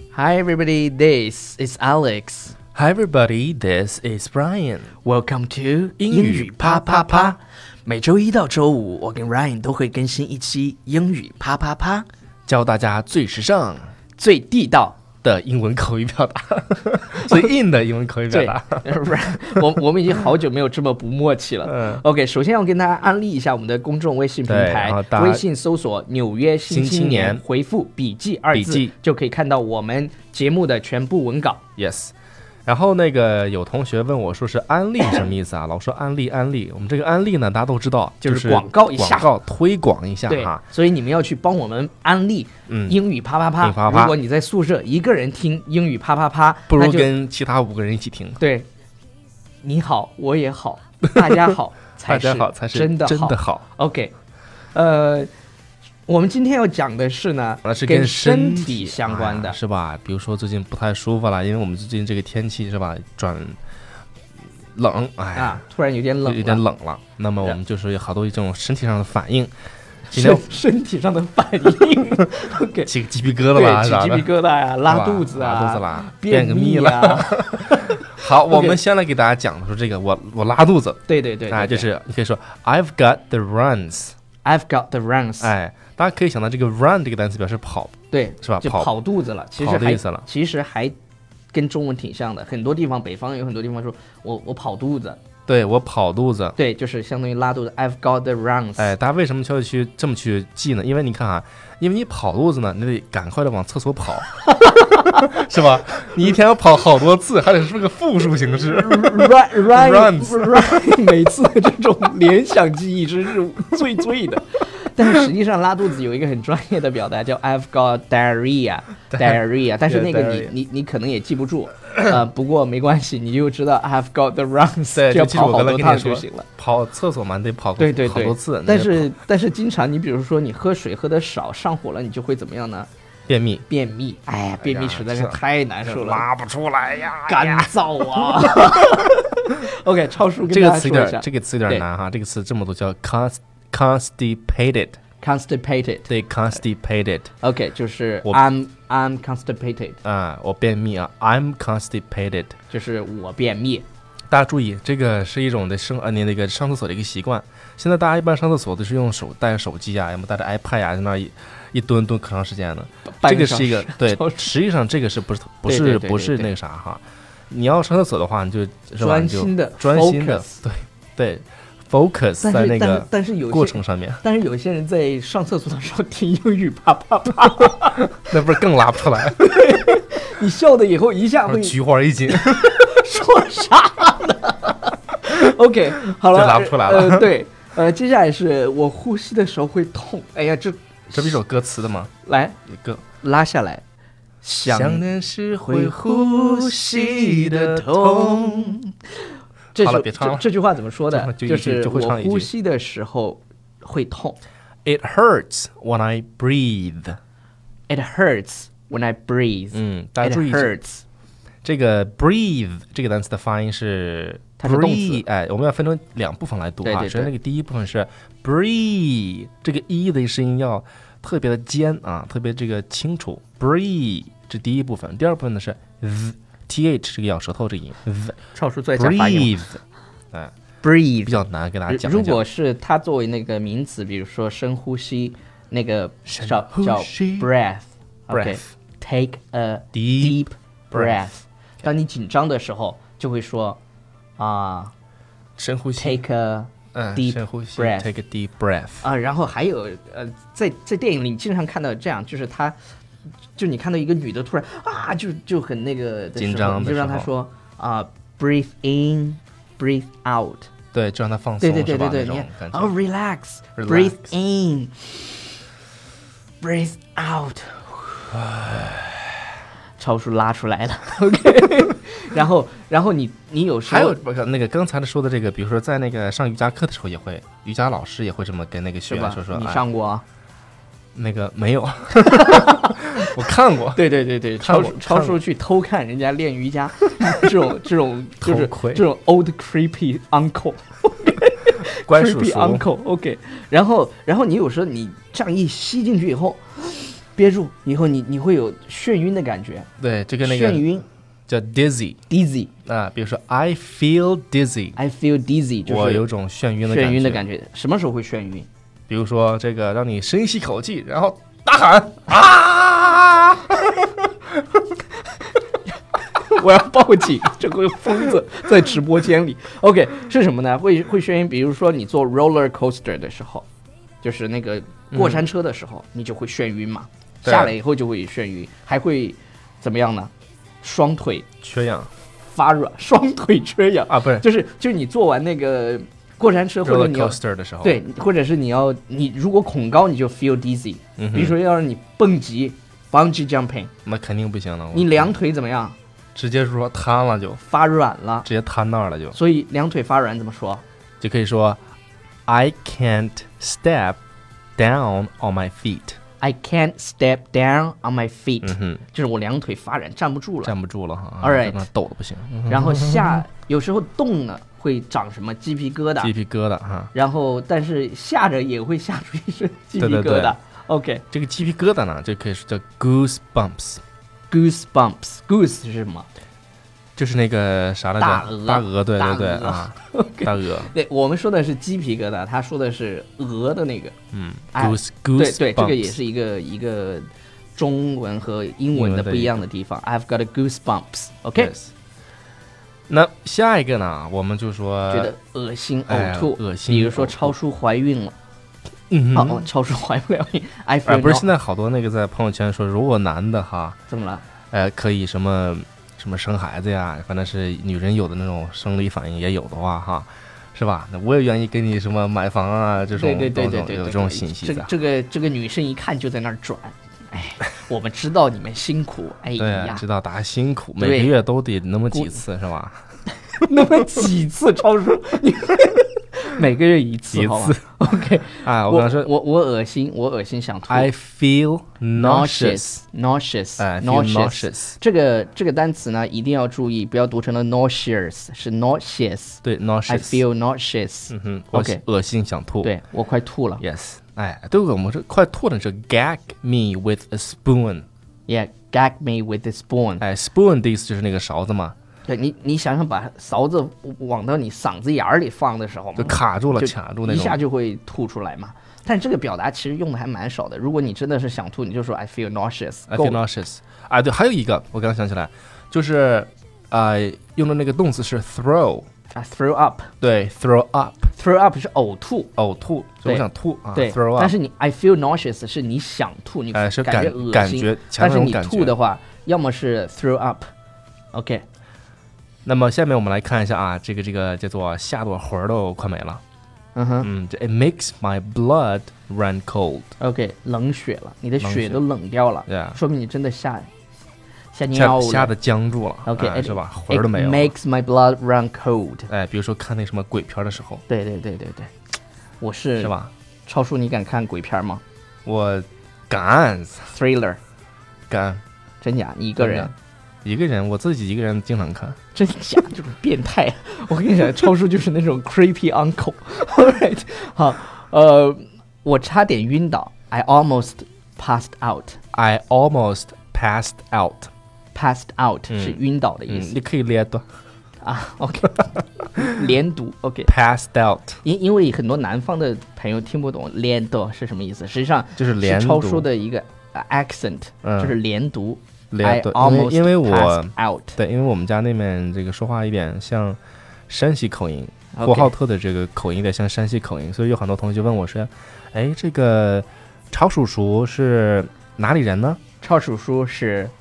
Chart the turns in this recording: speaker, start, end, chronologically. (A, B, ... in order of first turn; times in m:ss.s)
0:00.1-0:02.6 A
0:02.7-0:04.9 B
0:05.0-0:12.0 A
0:06.0-0:07.4 B
0:12.4-0:13.9 B
0:14.2-0:15.0 A
0:15.2-0:18.9 B
0:18.3-0:31.6 A
0:21.7-0:22.0 B
0:24.5-0:25.4 B
0:26.7-0:27.4 B
0:28.5-0:28.9 B
0:31.8-0:32.1 B
0:32.7-0:40.6 B
0:38.2-0:39.3 A
0:40.3-0:47.1 A
0:42.7-0:43.0 B
0:43.6-0:44.2 B
0:46.7-0:48.4 B
0:48.4-0:48.7 A
0:49.6-0:54.1 A
0:51.2-0:51.5 B
0:52.0-0:53.6 B
0:54.7-0:55.3 A
0:56.1-0:59.6 A
0:57.6-1:03.6 B
1:04.7-1:05.6 B
1:05.3-1:06.6 A
1:06.2-1:09.5 B
1:10.1-1:10.5 B
1:10.1-1:12.9 A
1:12.8-1:14.3 B
1:13.5-1:18.8 A
1:14.8-1:24.1 B
1:21.1-1:21.9 A
1:24.4-1:25.5 A
1:25.4-1:28.9 B
1:28.1-1:30.9 A
1:29.6-1:30.2 B
1:31.5-1:35.2 A
1:35.5-1:36.6 B
1:36.6-1:38.9 A
1:38.8-1:44.3 B
1:44.5-1:45.4 A
1:45.1-1:50.9 B
1:48.7-2:06.5 A
1:59.1-2:00.5 B
2:04.9-2:09.1 B
2:07.8-2:12.9 A
2:13.3-2:13.7 B
2:13.7-2:16.3 A
2:14.6-2:19.0 B
2:17.3-2:21.9 A
2:20.4-2:25.0 B
2:25.2-2:26.1 A
2:26.1-2:27.3 B
2:27.4-2:30.0 A
2:30.0-2:32.6 B
2:32.7-2:33.8 A
2:34.3-2:54.2 B
2:43.1-2:44.5 A
2:45.7-2:46.5 A
2:49.0-2:50.6 A
2:52.4-2:58.3 A
2:58.2-2:59.8 B
2:59.3-3:11.4 A
3:01.5-3:03.0 B
3:06.3-3:07.3 B
3:11.1-3:12.1 B
3:12.2-3:12.6 A
3:12.7-3:13.0 B
3:13.2-3:13.8 A
3:14.4-3:18.9 A
3:14.7-3:18.8 B
3:19.8-3:24.4 A
3:19.8-3:20.5 B
3:21.1-3:22.5 B
3:24.8-3:27.2 B
3:27.9-3:31.0 A
3:29.7-3:30.7 B
3:31.6-3:48.4 B
3:34.6-3:35.2 A
3:36.8-3:37.3 A
3:48.5-3:49.6 A
3:49.0-3:49.8 B
3:50.8-4:03.8 A
3:51.2-3:52.4 B
3:56.3-3:57.5 B
3:58.3-3:58.7 B
3:59.9-4:01.3 B
4:04.4-4:04.9 A
4:05.6-4:06.2 B
4:06.0-4:08.1 A
4:06.9-4:09.0 B
4:09.0-4:12.8 A
4:13.6-4:20.7 A
4:16.4-4:17.3 B
4:20.9-4:22.9 B
4:21.6-4:25.4 A
4:23.8-4:24.3 B
4:26.6-4:28.4 A
4:28.5-4:29.4 B
4:30.0-4:34.2 A
4:33.9-4:39.8 B
4:39.1-4:40.2 A
4:41.1-4:44.0 B
4:42.3-4:43.3 A
4:43.9-4:59.9 A
4:44.6-4:45.4 B
4:48.4-4:49.0 B
4:52.0-4:52.9 B
5:00.0-5:00.8 B
5:00.4-5:01.1 A
5:01.5-5:02.2 B
5:02.3-5:02.7 A
5:02.8-5:05.0 B
5:05.0-5:06.2 A
5:05.9-5:07.4 B
5:06.8-5:08.7 A
5:09.1-5:14.2 B
5:16.4-5:23.6 A
5:24.2-5:30.3 A
5:25.1-5:25.4 B
5:27.4-5:27.7 B
5:30.8-5:31.5 A
5:31.6-5:32.1 B
5:32.5-5:43.9 A
5:34.1-5:34.4 B
5:36.8-5:38.0 B
5:41.2-5:41.6 B
5:44.1-5:45.3 B
5:44.9-5:45.9 A
5:46.3-5:47.6 B
5:47.6-5:48.5 A
5:48.4-5:49.4 B
5:49.3-5:50.8 A
5:51.2-5:51.8 B
5:52.5-5:54.2 B
5:54.8-5:56.2 B
5:56.4-6:00.7 A
5:58.6-5:59.0 B
6:00.6-6:03.4 B
6:01.4-6:01.8 A
6:02.7-6:06.3 A
6:06.2-6:07.1 B
6:07.1-6:11.2 A
6:10.0-6:10.6 B
6:11.3-6:14.0 B
6:14.5-6:16.3 A
6:17.2-6:20.9 B
6:18.2-6:24.1 A
6:24.3-6:26.1 B
6:24.7-6:31.7 A
6:28.9-6:29.6 B
6:31.6-6:31.9 B
6:33.1-6:35.4 B
6:35.1-6:38.3 A
6:36.1-6:37.5 B
6:39.1-6:39.7 B
6:39.3-6:41.5 A
6:41.1-6:44.0 B
6:44.1-6:44.4 A
6:44.7-6:54.9 B
6:53.1-7:00.0 A
6:59.6-7:03.0 B
7:01.0-7:01.3 A
7:02.1-7:02.4 A
7:03.6-7:11.1 A
7:07.3-7:07.8 B
7:08.6-7:09.3 B
7:10.9-7:13.0 B
7:12.2-7:22.0 A
7:13.8-7:15.0 B
7:19.6-7:20.4 B
7:21.3-7:22.9 B
7:22.8-7:23.8 A
7:23.8-7:28.1 B
7:28.5-7:30.2 A
7:30.2-7:31.9 B
7:32.2-7:43.4 A
7:36.2-7:37.6 B
7:43.1-7:49.1 B
7:49.3-7:50.1 A
7:50.2-7:51.3 B
7:51.4-7:52.5 A
7:52.6-7:54.6 B
7:53.2-8:00.6 A
7:56.7-7:58.9 B
8:01.3-8:01.6 A
8:02.6-8:06.4 B
8:06.9-8:07.3 A
8:07.2-8:10.1 B
8:10.2-8:13.9 A
8:11.6-8:12.0 B
8:12.7-8:13.0 B
8:14.7-8:15.5 A
8:14.9-8:17.7 B
8:16.2-8:19.3 A
8:19.3-8:21.0 B
8:21.1-8:21.9 A
8:22.6-8:23.2 A
8:23.0-8:23.3 B
8:23.7-8:25.0 A
8:25.4-8:27.1 B
8:27.1-8:27.6 A
8:28.3-8:28.6 B
8:29.0-8:29.9 A
8:29.6-8:29.9 B
8:30.4-8:32.2 B
8:32.4-8:42.2 A
8:42.3-8:44.5 B
8:44.9-8:46.7 A
8:45.7-8:47.4 B
8:48.0-8:50.5 A
8:50.4-8:51.4 B
8:51.4-9:01.2 A
8:55.4-8:56.3 B
8:57.8-8:58.2 B
8:59.1-9:12.6 B
9:05.1-9:05.5 A
9:12.8-9:13.9 A